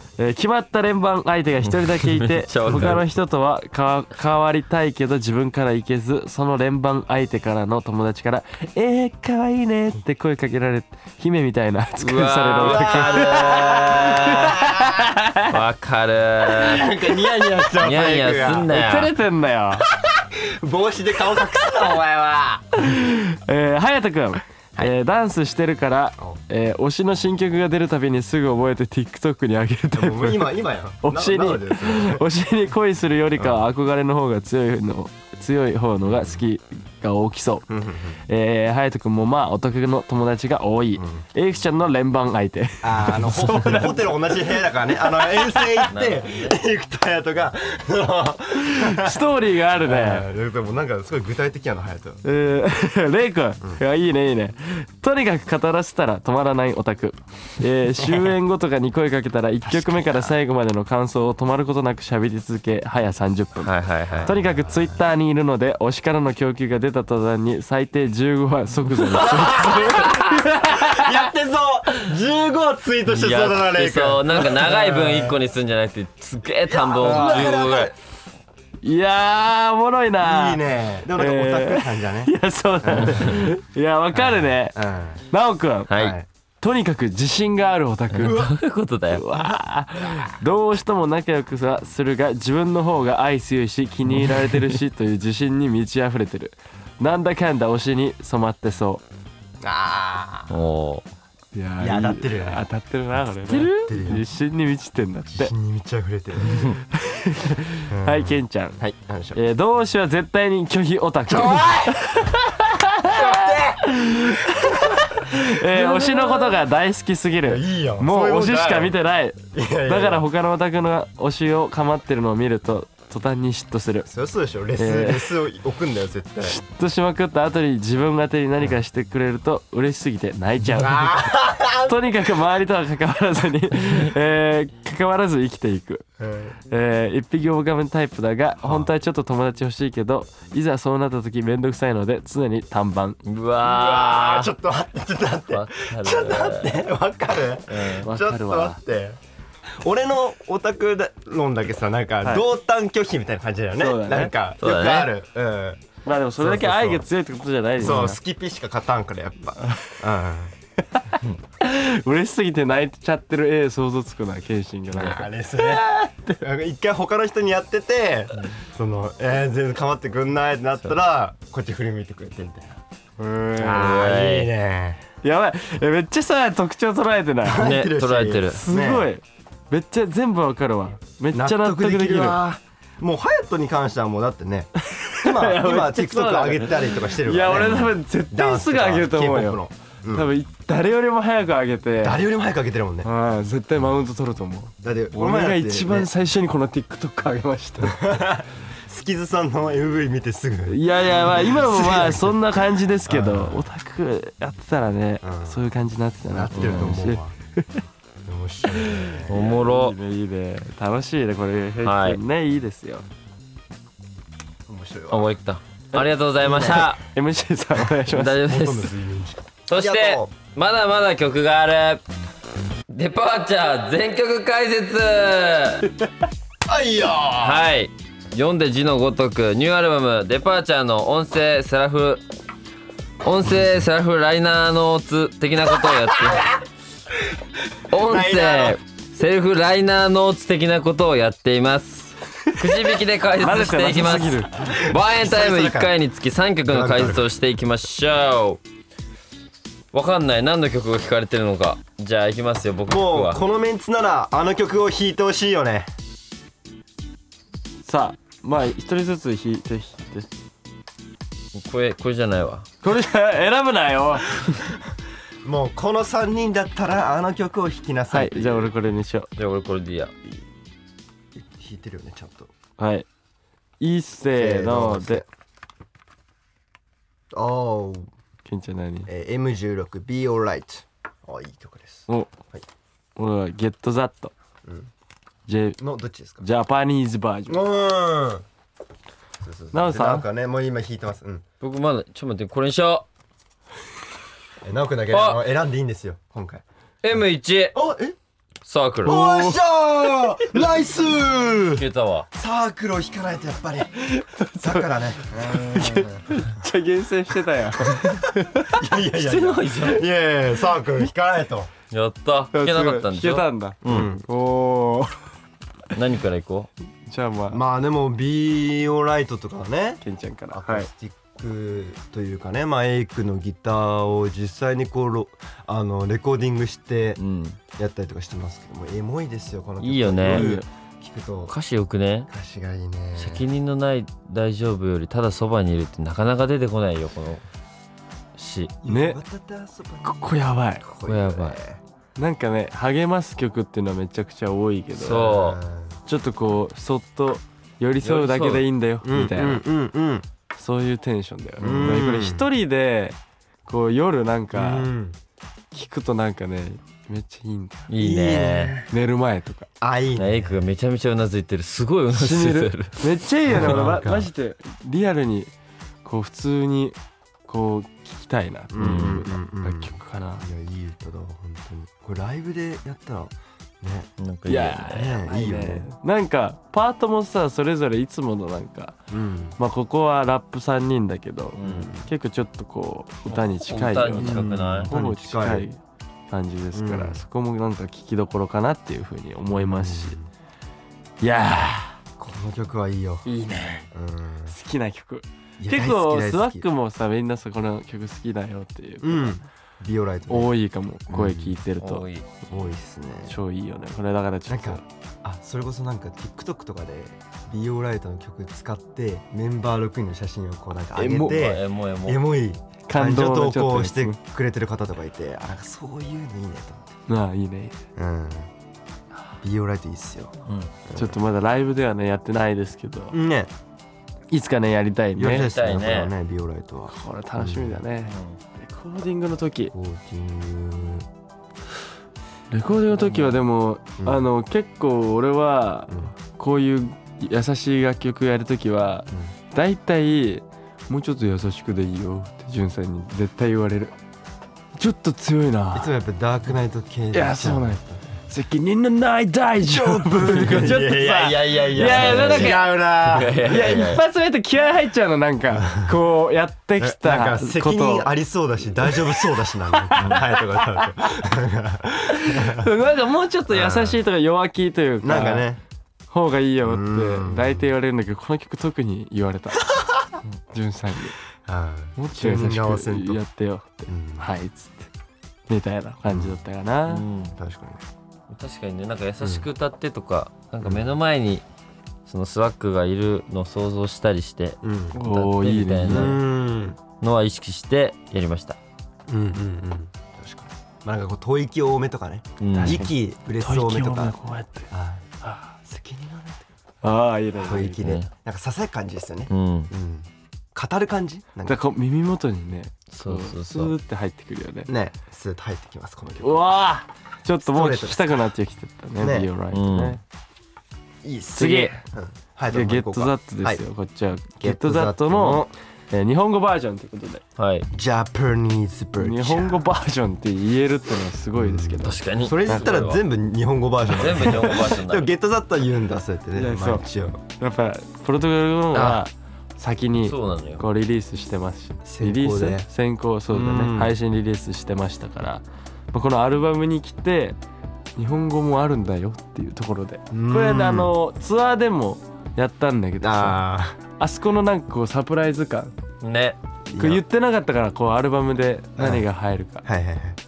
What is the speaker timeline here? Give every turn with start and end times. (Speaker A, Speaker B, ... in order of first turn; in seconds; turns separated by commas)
Speaker A: 0.2-15.6, Speaker B: 1.6-3.0, Speaker C: 2.7-3.0, Speaker B: 12.0-14.6, Speaker C: 12.6-15.1, Speaker B: 15.4-16.9, Speaker C: 16.4-18.7, Speaker B: 17.8-19.1, Speaker A: 18.7-19.9, Speaker C: 19.9-23.0, Speaker A: 22.8-37.7, Speaker C: 29.9-32.2, Speaker C: 33.4-33.6, Speaker C: 36.1-36.4, Speaker C: 37.7-38.2, Speaker A: 38.3-45.9, Speaker C: 41.0-41.2, Speaker C: 42.8-52.2, Speaker B: 45.9-46.6, Speaker A: 48.6-50.3, Speaker A: 52.2-63.7, Speaker C: 58.1-58.3, Speaker C: 59.6-60.3, Speaker B: 63.6-64.3, Speaker C: 64.1-64.9, Speaker A: 64.2-71.3, Speaker C: 69.1-75.4, Speaker B: 69.7-70.2, Speaker B: 73.1-77.9, Speaker C: 76.7-77.9, Speaker A: 77.0-77.6, Speaker A: 78.8-84.8, Speaker C: 80.2-83.5, Speaker C: 84.1-85.2, Speaker A: 85.3-86.1, Speaker B: 85.9-86.2, Speaker C: 86.0-86.2, Speaker A: 86.6-88.4, Speaker C: 88.1-88.5, Speaker B: 88.2-89.2, Speaker A: 89.1-99.0, Speaker C: 99.6-100.5, Speaker B: 100.5-101.0, Speaker A: 101.5-105.5, Speaker C: 101.8-102.7, Speaker B: 103.6-104.2, Speaker C: 103.8-104.2, Speaker C: 105.3-106.8, Speaker A: 106.4-108.8, Speaker C: 107.9-109.4, Speaker A: 109.3-124.1, Speaker C: 111.3-112.3, Speaker C: 113.0-116.6, Speaker C: 117.4-119.0, Speaker C: 119.5-120.2, Speaker C: 124.0-126.6, Speaker A: 124.8-125.4, Speaker A: 126.4-136.0, Speaker C: 130.7-132.4, Speaker C: 136.2-136.6, Speaker A: 136.7-143.2, Speaker C: 138.6-138.9, Speaker B: 143.2-144.5, Speaker C: 143.6-155.8, Speaker B: 145.5-146.8, Speaker B: 147.7-148.1, Speaker A: 148.0-148.8, Speaker A: 153.8-154.3, Speaker B: 154.6-155.1, Speaker A: 156.0-158.2, Speaker C: 156.4-157.1, Speaker C: 157.8-160.5, Speaker A: 161.6-166.4, Speaker C: 164.9-172.8, Speaker A: 173.2-174.0, Speaker C: 173.6-175.0, Speaker B: 173.6-174.5, Speaker A: 175.2-177.8, Speaker C: 177.4-179.1, Speaker B: 177.5-178.6, Speaker A: 178.6-182.4, Speaker C: 181.3-190.3, Speaker A: 184.8-192.2, Speaker C: 192.0-193.1, Speaker A: 193.0-198.1, Speaker C: 194.8-196.1, Speaker C: 197.8-202.5, Speaker A: 200.7-207.8, Speaker C: 203.1-203.7, Speaker C: 205.2-205.6, Speaker C: 206.3-207.3, Speaker B: 206.5-207.0, Speaker C: 208.2-209.5, Speaker A: 208.8-213.0, Speaker B: 209.3-209.9, Speaker B: 211.8-212.2, Speaker C: 214.7-215.3, Speaker B: 215.1-217.0, Speaker C: 216.4-216.9, Speaker A: 217.0-218.6, Speaker B: 218.1-218.9, Speaker C: 218.4-220.3, Speaker B: 219.7-222.0, Speaker B: 222.9-225.9, Speaker C: 226.7-227.7, Speaker B: 227.4-232.2, Speaker B: 233.2-236.5, Speaker B: 237.9-248.6, Speaker C: 237.9-238.8, Speaker A: 242.5-244.5, Speaker C: 244.6-245.9, Speaker C: 246.7-247.2, Speaker B: 249.9-253.4, Speaker C: 252.9-255.9, Speaker A: 257.8-260.3, Speaker B: 261.5-262.7, Speaker A: 262.8-264.4, Speaker C: 265.4-268.7, Speaker A: 268.1-269.3, Speaker B: 269.4-270.1, Speaker C: 271.3-272.5, Speaker A: 272.8-273.1, Speaker A: 273.8-275.2, Speaker C: 274.3-275.2, Speaker C: 277.3-278.1, Speaker A: 278.4-279.1, Speaker C: 279.1-282.6, Speaker A: 283.2-284.3, Speaker C: 284.6-284.9, Speaker A: 285.5-285.8, Speaker C: 285.8-286.4, Speaker A: 286.4-287.6, Speaker C: 287.5-288.4, Speaker C: 289.4-291.4, Speaker A: 289.7-290.2, Speaker B: 291.6-293.1, Speaker C: 294.6-296.6, Speaker B: 295.1-295.4, Speaker B: 297.0-297.8, Speaker C: 297.7-298.1, Speaker B: 298.6-299.2, Speaker A: 299.0-299.6, Speaker C: 299.0-304.0, Speaker A: 300.5-300.9, Speaker B: 301.7-302.3, Speaker A: 304.0-308.8, Speaker C: 304.6-306.4, Speaker C: 307.8-311.7, Speaker B: 309.1-310.1, Speaker B: 311.9-314.2, Speaker A: 312.5-315.2, Speaker C: 313.8-314.2, Speaker B: 315.9-316.7, Speaker A: 317.1-317.6, Speaker C: 317.5-327.2, Speaker A: 320.0-320.9, Speaker B: 327.2-327.6, Speaker C: 327.8-331.5, Speaker B: 329.8-330.5, Speaker A: 330.2-330.6, Speaker B: 331.5-332.3, Speaker C: 332.3-333.4, Speaker B: 333.2-337.4, Speaker B: 338.4-338.7, Speaker C: 338.8-341.8, Speaker A: 338.9-339.2, Speaker A: 340.0-340.8, Speaker B: 341.0-341.6, Speaker A: 342.1-345.4, Speaker B: 344.9-345.6, Speaker C: 345.2-346.0, Speaker A: 346.1-349.6, Speaker B: 348.0-348.7, Speaker C: 349.0-350.3, Speaker A: 350.5-354.9, Speaker C: 351.6-352.4, Speaker C: 354.5-355.2, Speaker A: 355.7-357.9, Speaker B: 357.9-358.7, Speaker C: 358.0-358.9, Speaker A: 358.9-359.7, Speaker C: 359.8-360.6, Speaker B: 360.1-363.0, Speaker A: 362.1-365.5, Speaker C: 363.5-364.3, Speaker A: 366.0-370.4, Speaker C: 368.7-374.1, Speaker B: 368.8-369.2, Speaker B: 374.2-374.9, Speaker A: 374.5-379.0, Speaker C: 374.8-375.9, Speaker C: 379.1-379.6, Speaker A: 379.6-385.8, Speaker B: 381.6-381.9, Speaker C: 381.6-382.1, Speaker B: 383.3-384.9, Speaker C: 384.1-385.6, Speaker A: 386.3-390.2, Speaker C: 386.7-387.2, Speaker C: 389.5-390.3, Speaker A: 391.2-392.0, Speaker C: 392.2-393.2, Speaker A: 393.2-393.9, Speaker C: 393.9-394.5, Speaker A: 394.5-399.4, Speaker C: 395.6-396.6, Speaker C: 399.0-400.5, Speaker A: 400.3-402.0, Speaker C: 401.1-401.6, Speaker B: 401.8-402.2, Speaker C: 402.4-403.4, Speaker A: 403.3-404.8, Speaker C: 404.5-417.0, Speaker A: 410.9-411.4, Speaker B: 411.2-412.2, Speaker A: 412.9-414.2, Speaker A: 417.1-417.8, Speaker C: 417.9-418.5, Speaker C: 419.4-421.2, Speaker B: 420.5-420.7, Speaker A: 420.9-423.2, Speaker C: 423.1-423.5, Speaker A: 424.3-425.7, Speaker C: 425.1-427.8, Speaker B: 425.4-426.1, Speaker A: 426.9-429.7, Speaker B: 428.0-428.4, Speaker C: 429.7-431.1, Speaker A: 432.5-443.9, Speaker C: 432.9-433.4, Speaker A: 444.8-445.9, Speaker C: 445.7-448.2, Speaker A: 447.1-458.1, Speaker C: 449.6-453.8, Speaker B: 450.3-454.0, Speaker C: 455.5-456.0, Speaker C: 456.8-462.7, Speaker A: 458.8-461.1, Speaker A: 462.1-465.5, Speaker C: 463.5-464.0, Speaker C: 465.0-465.6, Speaker A: 466.1-469.7, Speaker C: 466.6-467.7, Speaker A: 470.5-471.2, Speaker C: 471.4-473.2, Speaker A: 472.0-474.9, Speaker C: 473.9-474.3, Speaker A: 475.5-477.0, Speaker C: 476.1-476.4, Speaker B: 476.9-477.4, Speaker C: 477.4-477.8, Speaker B: 478.3-481.4, Speaker C: 480.6-480.9, Speaker B: 482.1-486.2, Speaker C: 484.6-484.9, Speaker A: 484.9-486.2, Speaker C: 485.9-486.8, Speaker B: 487.0-488.6, Speaker C: 489.1-494.1, Speaker B: 492.4-492.8, Speaker A: 492.6-494.7, Speaker C: 494.7-495.1, Speaker A: 495.2-495.5, Speaker C: 495.6-496.5, Speaker A: 496.8-497.9, Speaker C: 497.4-501.6, Speaker B: 497.8-498.1, Speaker B: 499.3-499.7, Speaker A: 501.4-504.7, Speaker B: 502.9-503.7, Speaker C: 504.7-506.6, Speaker A: 506.2-510.0, Speaker C: 507.5-508.3, Speaker C: 509.0-509.3, Speaker B: 509.5-510.0, Speaker C: 511.0-513.6, Speaker A: 511.3-511.8, Speaker A: 512.5-517.2, Speaker C: 514.4-515.5, Speaker B: 517.4-517.7, Speaker C: 517.7-519.6, Speaker A: 519.0-522.7, Speaker C: 521.4-527.2, Speaker B: 521.8-523.0, Speaker B: 523.9-525.1, Speaker A: 524.0-524.6, Speaker A: 526.3-537.4, Speaker C: 528.7-529.0, Speaker B: 530.0-530.6, Speaker C: 531.9-532.6, Speaker C: 533.3-534.0, Speaker A: 538.0-543.4, Speaker C: 540.1-540.9, Speaker C: 543.0-543.8, Speaker A: 544.0-545.7, Speaker B: 546.0-546.4, Speaker C: 546.7-547.0, Speaker A: 546.8-549.6, Speaker C: 548.8-549.0, Speaker C: 549.6-550.2